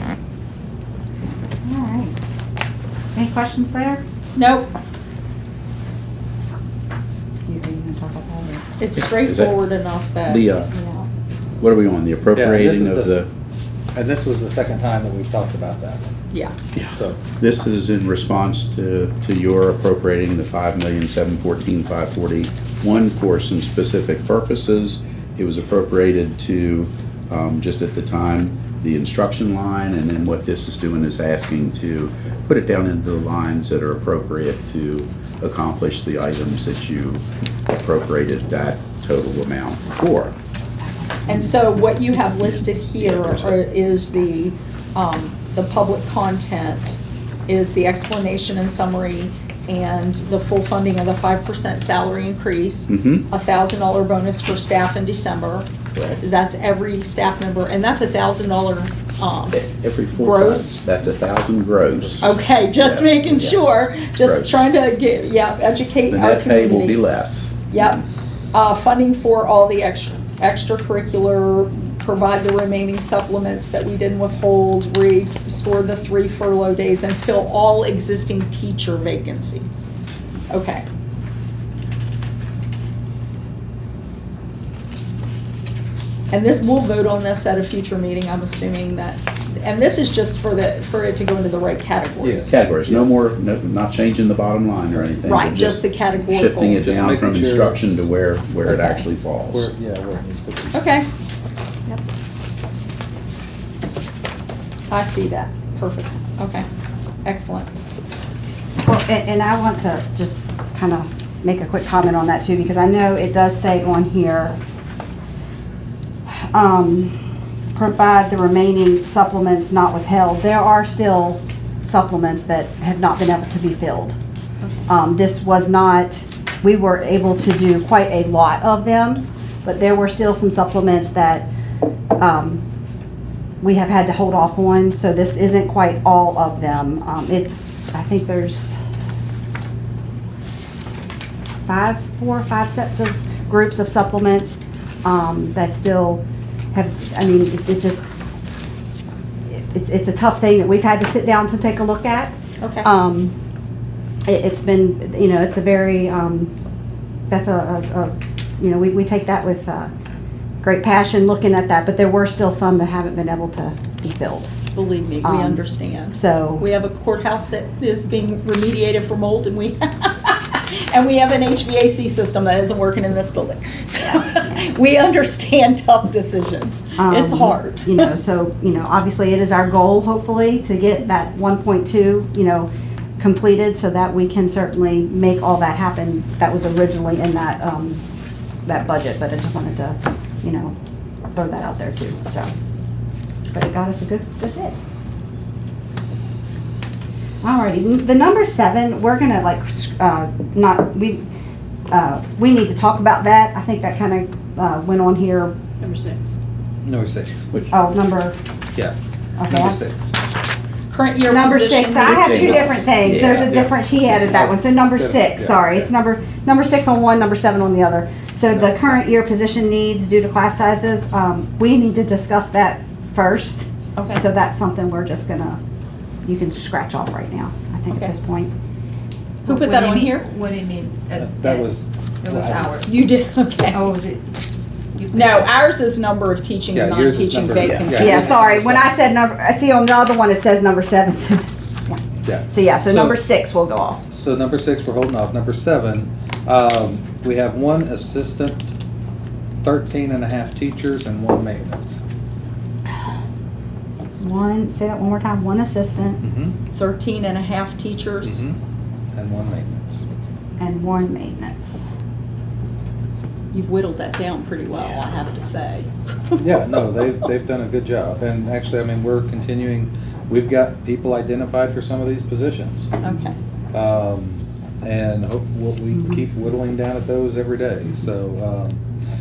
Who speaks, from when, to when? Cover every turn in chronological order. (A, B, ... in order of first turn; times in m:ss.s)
0:01.6-0:02.2 A
0:03.1-0:04.0 A
0:04.4-0:04.7 B
0:07.5-0:08.6 A
0:08.8-0:11.1 B
0:09.0-0:09.5 C
0:10.2-0:10.7 C
0:11.6-0:13.3 C
0:12.3-0:13.3 D
0:13.9-0:16.1 D
0:16.7-0:40.3 C
0:40.8-0:41.8 A
0:41.3-0:55.7 B
0:42.4-0:43.5 C
0:52.9-0:53.2 C
0:55.9-0:56.2 C
0:56.2-0:59.6 B
0:59.5-1:04.7 C
1:00.1-1:00.8 B
1:02.2-1:07.0 B
1:06.1-1:08.0 C
1:07.7-1:19.8 B
1:20.5-1:20.8 B
1:26.3-1:32.5 B
1:32.2-1:33.2 D
1:32.5-1:39.7 C
1:35.2-1:36.8 B
1:36.8-1:38.0 D
1:38.6-1:39.0 B
1:39.5-1:40.8 D
1:40.7-1:41.1 B
1:44.9-1:46.6 B
1:47.2-1:47.7 B
1:48.8-1:54.6 A
1:56.3-1:57.1 A
1:57.7-2:04.2 A
2:04.6-2:04.9 B
2:04.9-2:11.5 A
2:12.2-2:12.6 A
2:13.6-2:18.8 A
2:21.6-2:26.2 A
2:26.7-2:28.0 A
2:29.5-2:33.3 A
2:32.6-2:32.9 B
2:34.2-2:36.5 A
2:37.3-2:39.9 A
2:40.6-2:44.5 A
2:44.7-2:58.0 B
2:45.2-2:46.6 A
2:54.0-2:54.5 A
2:57.0-3:08.0 A
3:08.6-3:10.7 A
3:11.3-3:12.5 A
3:13.5-3:14.8 A
3:17.4-3:21.3 A
3:21.9-3:25.6 A
3:25.8-3:26.3 B
3:26.8-3:27.5 D
3:27.7-3:28.4 A
3:29.4-3:29.8 A
3:29.5-3:30.2 D
3:30.9-3:32.8 B
3:31.3-3:45.6 A
3:32.0-3:33.6 C
3:33.0-3:35.9 D
3:38.5-3:39.0 D
3:44.0-3:44.2 B
3:46.2-3:48.5 A
3:49.4-3:50.3 B
3:49.5-3:51.5 E
3:51.1-3:52.8 D
3:52.2-3:52.8 E
3:52.8-3:53.9 B
3:53.7-3:54.3 E
3:54.9-3:55.3 E
3:55.1-3:58.4 B
3:56.7-3:58.9 D
3:57.6-3:57.8 C
3:57.9-4:04.0 A
4:02.2-4:03.2 D
4:04.1-4:08.7 D
4:09.6-4:12.0 D
4:14.0-4:14.3 B
4:14.2-4:16.2 A
4:16.2-4:16.5 D
4:16.7-4:18.4 B
4:18.2-4:18.6 D
4:19.1-4:20.0 D
4:20.6-4:21.8 A
4:23.5-4:26.8 B
4:26.4-4:32.9 D
4:33.0-4:33.4 B
4:33.7-4:38.8 D